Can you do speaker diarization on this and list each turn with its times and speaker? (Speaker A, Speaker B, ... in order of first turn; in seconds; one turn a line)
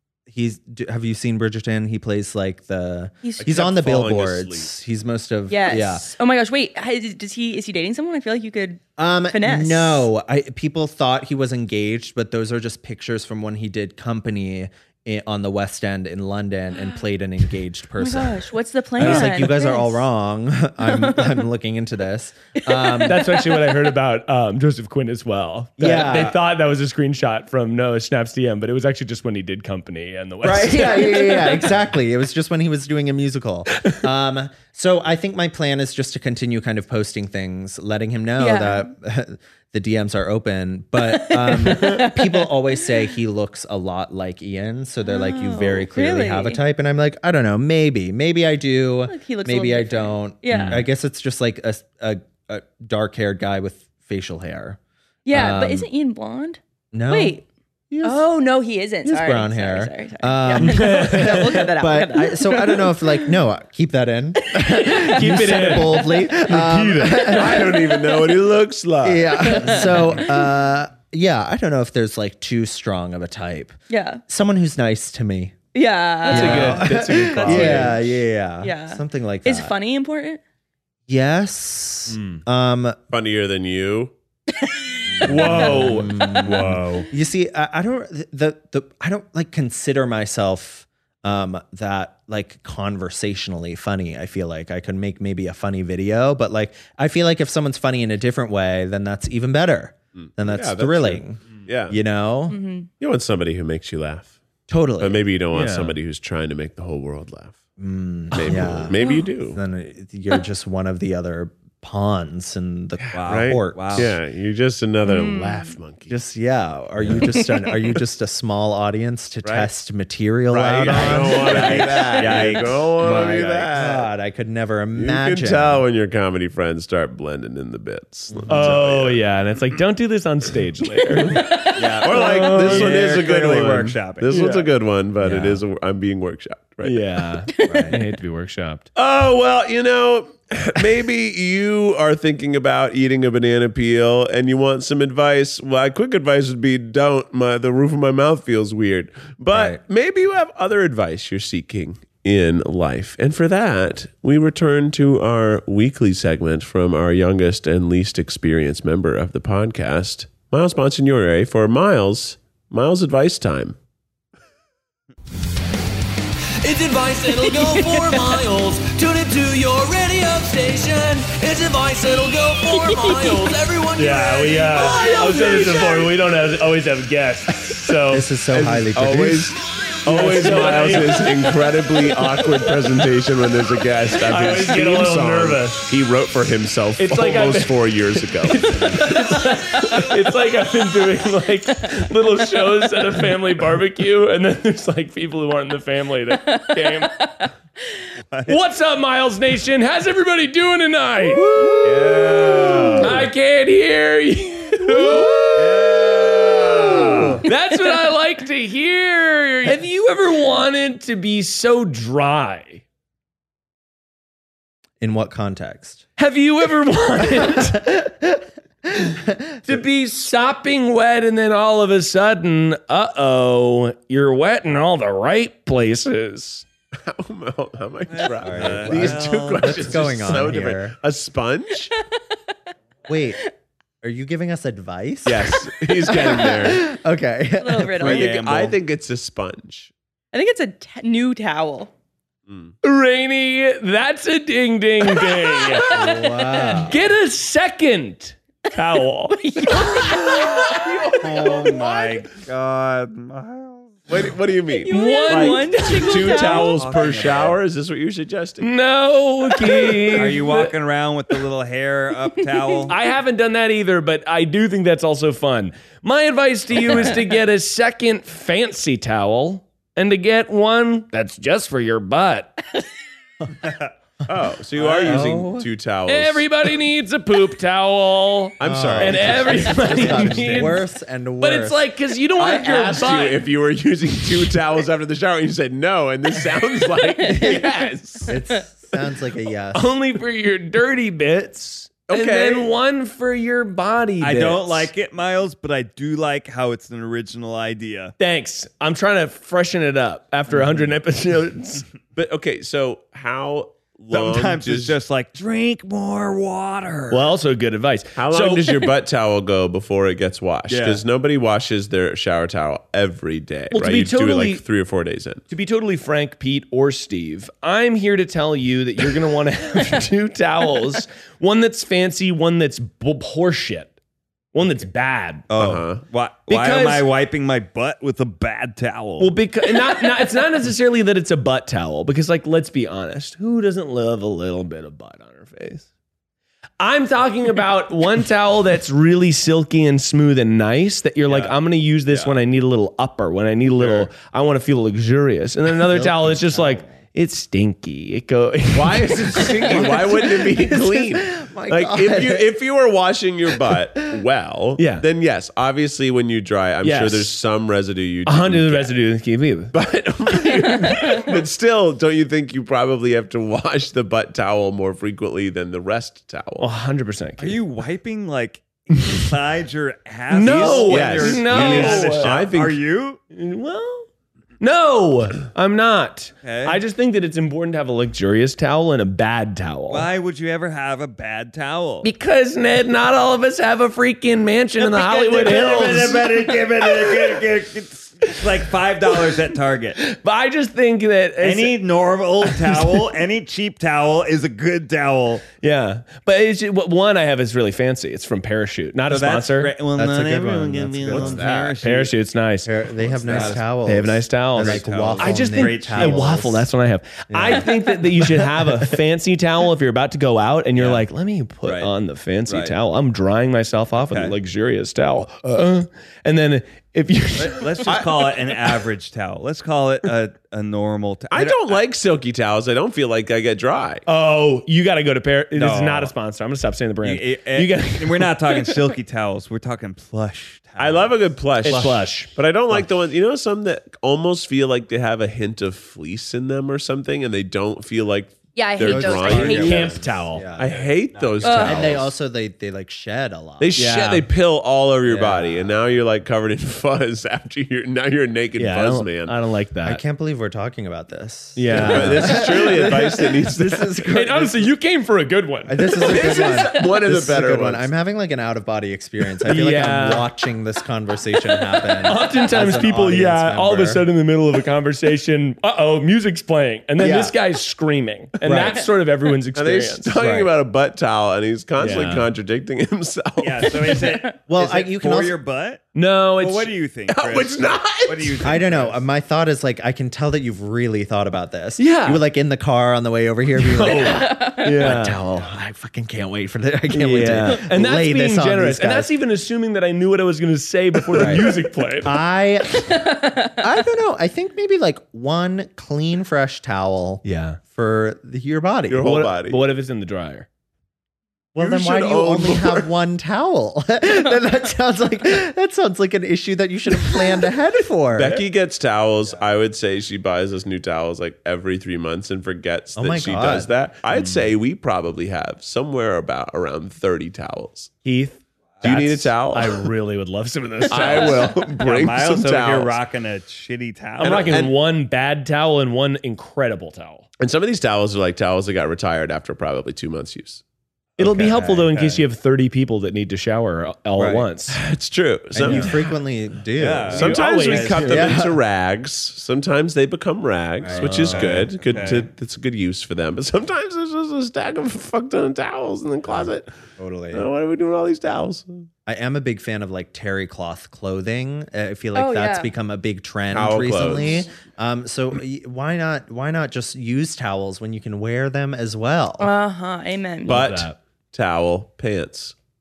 Speaker A: 0.3-6.1
Speaker B: 3.4-4.7
Speaker C: 5.5-10.1
Speaker A: 9.0-23.3
Speaker C: 18.0-20.1
Speaker C: 20.8-21.4
Speaker C: 22.6-23.9
Speaker D: 23.1-31.3
Speaker A: 25.8-26.4
Speaker A: 30.4-54.8
Speaker C: 31.1-31.6
Speaker C: 38.4-38.9
Speaker C: 41.0-43.0
Speaker C: 45.0-46.6
Speaker C: 49.1-50.9
Speaker C: 55.3-57.5
Speaker A: 55.3-55.9
Speaker A: 56.9-58.3
Speaker C: 58.0-63.4
Speaker A: 59.0-67.7
Speaker D: 60.6-61.6
Speaker C: 64.5-66.3
Speaker D: 65.1-67.3
Speaker B: 67.1-70.0
Speaker C: 67.6-68.3
Speaker A: 69.0-75.6
Speaker C: 69.4-70.4
Speaker C: 73.9-74.2
Speaker C: 75.7-77.7
Speaker D: 76.2-78.1
Speaker A: 76.3-79.7
Speaker B: 77.5-77.9
Speaker C: 78.6-80.4
Speaker A: 81.1-83.0
Speaker D: 82.1-82.4
Speaker B: 83.1-84.1
Speaker C: 84.6-86.4
Speaker A: 85.2-102.6
Speaker D: 85.2-87.0
Speaker B: 100.2-102.0
Speaker C: 102.5-102.9
Speaker B: 103.0-104.4
Speaker A: 104.7-105.2
Speaker B: 105.0-107.6
Speaker D: 105.5-105.9
Speaker A: 107.8-109.0
Speaker B: 108.3-109.6
Speaker C: 109.0-109.3
Speaker A: 109.5-114.2
Speaker B: 113.0-116.2
Speaker E: 113.1-114.1
Speaker C: 115.0-115.8
Speaker A: 116.1-122.3
Speaker C: 117.2-117.9
Speaker B: 119.4-119.7
Speaker B: 120.5-124.1
Speaker E: 120.9-123.7
Speaker A: 123.0-125.9
Speaker B: 125.0-129.2
Speaker D: 128.5-133.0
Speaker E: 131.8-134.3
Speaker B: 132.0-137.3
Speaker D: 134.3-134.7
Speaker A: 135.2-135.6
Speaker D: 136.8-138.9
Speaker C: 137.5-137.9
Speaker A: 137.7-138.0
Speaker B: 138.9-163.8
Speaker A: 149.5-149.8
Speaker F: 166.6-176.2
Speaker C: 167.3-168.4
Speaker C: 172.7-173.6
Speaker D: 174.0-178.3
Speaker C: 174.9-175.4
Speaker A: 178.1-179.6
Speaker B: 178.5-189.0
Speaker D: 180.1-181.5
Speaker D: 184.2-185.9
Speaker D: 187.0-187.9
Speaker D: 188.4-197.2
Speaker C: 188.9-189.4
Speaker C: 196.3-197.3
Speaker E: 198.3-198.6
Speaker D: 198.5-201.7
Speaker E: 201.2-203.3
Speaker B: 202.1-202.8
Speaker D: 203.0-205.8
Speaker E: 204.9-207.5
Speaker D: 207.4-212.8
Speaker A: 215.0-216.1
Speaker D: 216.2-217.8
Speaker A: 217.2-219.8
Speaker D: 219.7-226.7
Speaker B: 227.0-231.9
Speaker E: 228.1-230.2
Speaker A: 228.4-230.9
Speaker A: 233.1-233.4
Speaker A: 234.0-238.2
Speaker B: 235.3-236.8
Speaker C: 237.6-238.2
Speaker E: 238.0-238.8
Speaker B: 238.0-239.9
Speaker C: 240.3-241.9
Speaker B: 242.5-242.7
Speaker D: 242.8-250.3
Speaker C: 245.3-246.9
Speaker A: 245.9-247.0
Speaker C: 248.7-252.2
Speaker B: 250.7-251.7
Speaker E: 251.2-254.2
Speaker B: 254.1-258.7
Speaker C: 254.8-256.9
Speaker D: 254.9-256.4
Speaker E: 256.3-257.6
Speaker D: 258.6-260.8
Speaker C: 259.7-260.0
Speaker E: 260.1-263.0
Speaker C: 262.3-262.9
Speaker D: 262.9-272.6
Speaker C: 266.9-267.2
Speaker B: 274.3-276.5
Speaker E: 274.8-275.2
Speaker A: 275.0-275.7
Speaker D: 276.1-280.9
Speaker B: 278.6-280.8
Speaker A: 278.6-281.8
Speaker D: 281.4-283.4
Speaker B: 282.4-288.3
Speaker C: 287.2-288.6
Speaker A: 288.3-289.9
Speaker D: 289.7-294.9
Speaker B: 292.1-292.7
Speaker E: 294.2-298.1
Speaker D: 298.2-301.9
Speaker E: 300.5-300.8
Speaker B: 302.1-305.0
Speaker E: 304.1-307.3
Speaker D: 307.1-308.9
Speaker B: 308.2-315.4
Speaker E: 310.7-311.0
Speaker D: 313.7-314.6
Speaker D: 315.5-323.9
Speaker D: 324.5-325.5
Speaker E: 325.5-330.0
Speaker B: 325.6-326.0
Speaker D: 326.5-327.1
Speaker D: 329.2-335.9
Speaker D: 336.8-349.8
Speaker E: 341.2-342.4
Speaker E: 343.8-344.1
Speaker A: 345.9-346.9
Speaker E: 346.1-346.6
Speaker B: 348.7-358.9
Speaker A: 349.7-352.5
Speaker D: 354.8-355.1
Speaker D: 356.8-357.3
Speaker D: 358.3-359.7
Speaker B: 359.7-366.7
Speaker C: 360.4-361.2
Speaker D: 366.6-367.6
Speaker E: 367.4-373.2
Speaker D: 370.3-372.4
Speaker B: 370.5-372.8
Speaker D: 373.3-374.1
Speaker D: 374.6-380.1
Speaker E: 376.4-376.8
Speaker E: 379.9-382.1
Speaker D: 382.0-387.4
Speaker E: 384.8-390.0
Speaker D: 390.0-391.9
Speaker E: 391.4-395.5
Speaker D: 392.4-393.1
Speaker D: 395.5-399.8
Speaker E: 399.1-402.2
Speaker A: 400.0-401.4
Speaker B: 401.1-401.8
Speaker D: 401.8-402.8
Speaker A: 402.6-406.7
Speaker E: 403.1-403.8
Speaker D: 403.3-418.1
Speaker E: 404.5-406.6
Speaker A: 407.3-408.5
Speaker E: 410.8-411.1
Speaker E: 411.6-411.9
Speaker E: 412.5-412.8
Speaker E: 413.9-414.4
Speaker E: 417.4-421.8
Speaker B: 421.3-424.1
Speaker D: 424.1-428.7
Speaker E: 425.6-426.1
Speaker E: 427.0-431.3
Speaker B: 430.8-442.1
Speaker D: 431.6-432.3
Speaker A: 431.7-432.0
Speaker A: 438.8-440.8
Speaker E: 439.1-440.2
Speaker D: 439.4-440.5
Speaker C: 441.4-441.9
Speaker A: 441.4-443.9
Speaker B: 443.6-449.4
Speaker D: 443.8-444.2
Speaker A: 445.1-445.8
Speaker D: 448.6-450.0
Speaker A: 449.8-454.6
Speaker D: 451.6-452.6
Speaker B: 451.7-454.1
Speaker D: 454.1-456.0
Speaker A: 455.7-464.1
Speaker B: 456.0-457.9
Speaker C: 456.0-456.9
Speaker D: 459.4-460.3
Speaker D: 461.9-470.1
Speaker A: 467.0-467.3
Speaker A: 468.4-468.9
Speaker B: 469.6-474.0
Speaker A: 470.1-470.5
Speaker D: 471.8-472.3
Speaker E: 473.4-479.1
Speaker C: 474.1-474.4
Speaker A: 474.5-475.4
Speaker D: 475.9-476.7
Speaker B: 477.1-478.7
Speaker A: 478.4-489.1
Speaker D: 481.8-482.2
Speaker D: 483.6-485.2
Speaker C: 483.9-484.8
Speaker D: 486.9-492.2
Speaker A: 491.1-492.9
Speaker C: 492.9-493.8
Speaker A: 493.6-499.2
Speaker D: 497.2-497.6
Speaker B: 498.9-499.6
Speaker D: 499.0-500.5
Speaker A: 501.6-508.4
Speaker B: 501.6-502.9
Speaker B: 508.2-517.9
Speaker A: 513.0-513.7
Speaker D: 514.1-514.5
Speaker D: 518.0-521.5
Speaker B: 518.8-519.9
Speaker B: 520.9-523.0
Speaker C: 520.9-521.5
Speaker E: 521.8-524.5
Speaker B: 524.2-524.7
Speaker D: 524.2-527.3
Speaker B: 527.4-530.6
Speaker D: 531.2-534.8
Speaker E: 531.2-532.3
Speaker A: 531.4-531.9
Speaker E: 534.2-534.5
Speaker B: 534.7-536.2
Speaker A: 535.5-537.4
Speaker E: 536.8-538.3
Speaker B: 537.1-546.7
Speaker D: 537.2-538.3
Speaker A: 538.1-538.6
Speaker A: 540.8-541.7
Speaker E: 540.9-542.3
Speaker A: 546.3-547.5
Speaker B: 547.3-548.9
Speaker A: 549.1-559.5
Speaker C: 552.1-552.7
Speaker B: 553.5-554.5
Speaker C: 559.4-560.6
Speaker D: 560.4-561.0
Speaker B: 560.5-562.5